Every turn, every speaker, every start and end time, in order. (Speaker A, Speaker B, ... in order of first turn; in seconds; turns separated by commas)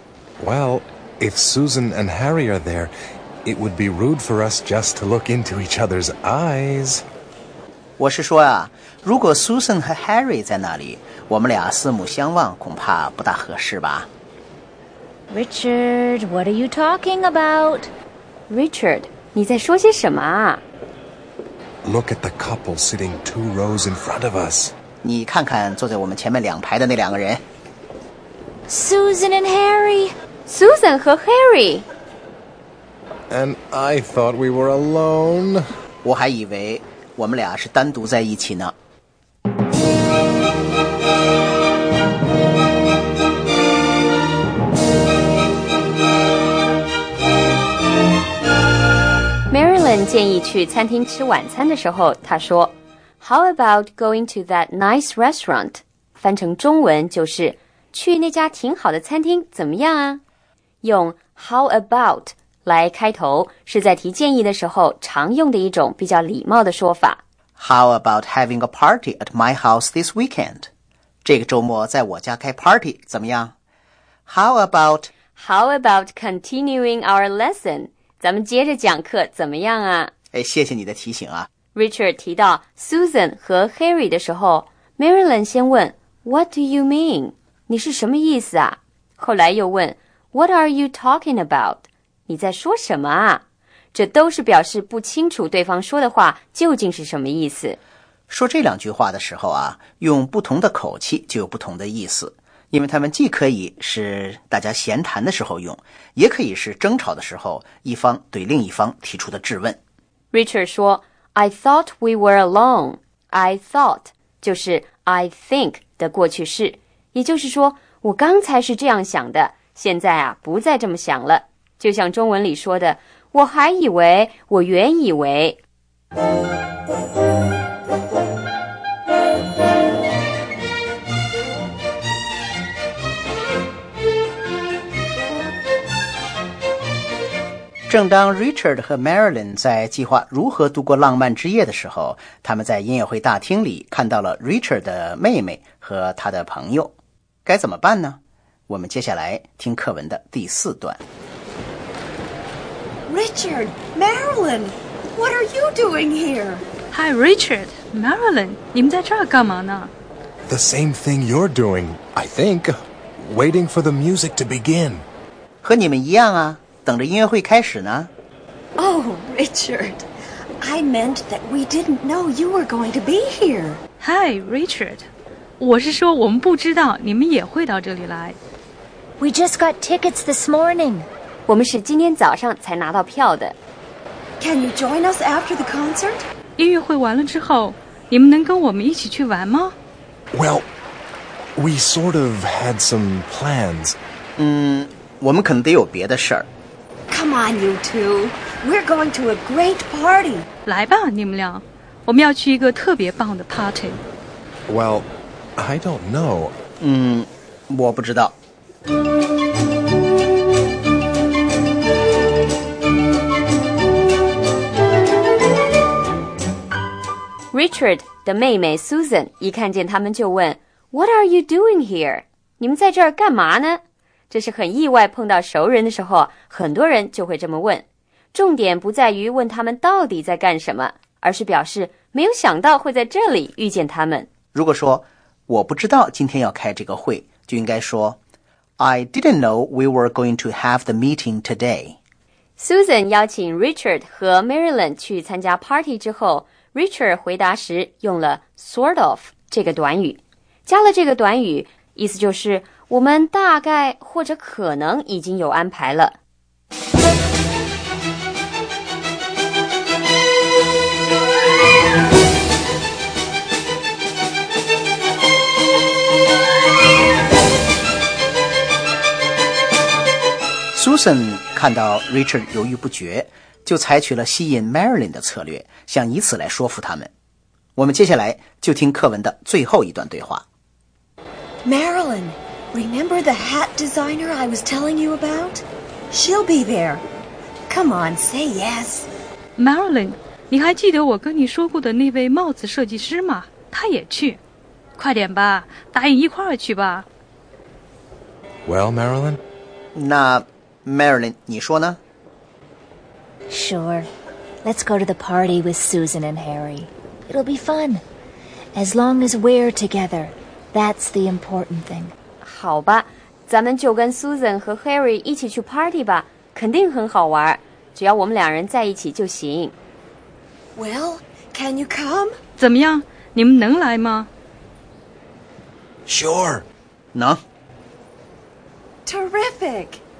Speaker A: 0.4-2.9, Speaker A: 3.4-7.0, Speaker B: 8.0-14.1, Speaker C: 15.3-17.9, Speaker D: 18.5-20.6, Speaker A: 21.8-24.7, Speaker B: 25.0-27.4, Speaker C: 28.7-30.1, Speaker D: 30.5-31.9, Speaker A: 33.3-35.6, Speaker B: 36.0-38.7, Speaker D: 49.5-60.2, Speaker D: 60.8-67.2, Speaker B: 67.6-70.7, Speaker B: 71.2-73.5, Speaker B: 74.3-75.1, Speaker D: 75.3-80.1, Speaker B: 80.3-81.5, Speaker D: 81.7-93.4, Speaker D: 93.9-97.8, Speaker B: 98.3-109.8, Speaker D: 110.3-125.6, Speaker B: 137.9-151.0, Speaker E: 153.1-156.6, Speaker F: 156.9-159.9, Speaker A: 160.5-165.1, Speaker B: 165.6-168.1, Speaker E: 168.8-170.1, Speaker E: 170.6-173.8, Speaker F: 174.0-175.1, Speaker F: 175.6-178.4, Speaker C: 179.2-181.1, Speaker D: 181.5-183.6, Speaker E: 184.4-186.2, Speaker F: 186.6-189.7, Speaker A: 190.3-190.7, Speaker A: 191.6-194.0, Speaker B: 194.4-196.5, Speaker E: 197.1-200.5, Speaker F: 200.6-204.0, Speaker A: 204.7-206.6, Speaker B: 206.8-208.3, Speaker D: 217.5-234.3, Speaker B: 234.5-238.2, Speaker B: 238.8-242.0, Speaker D: 242.6-256.1, Speaker B: 270.7-277.1, Speaker B: 277.8-280.4, Speaker E: 281.6-287.0, Speaker E: 287.7-289.1, Speaker F: 289.6-294.4, Speaker F: 295.0-297.1, Speaker A: 298.6-299.4, Speaker B: 299.9-302.0, Speaker C: 303.5-304.1, Speaker C: 304.6-308.0, Speaker C: 308.7-312.1, Speaker D: 312.4-319.7, Speaker E: 320.8-322.4, Speaker F: 322.6-324.3, Speaker A: 326.1-326.6, Speaker B: 327.1-327.4, Speaker E: 329.1-330.0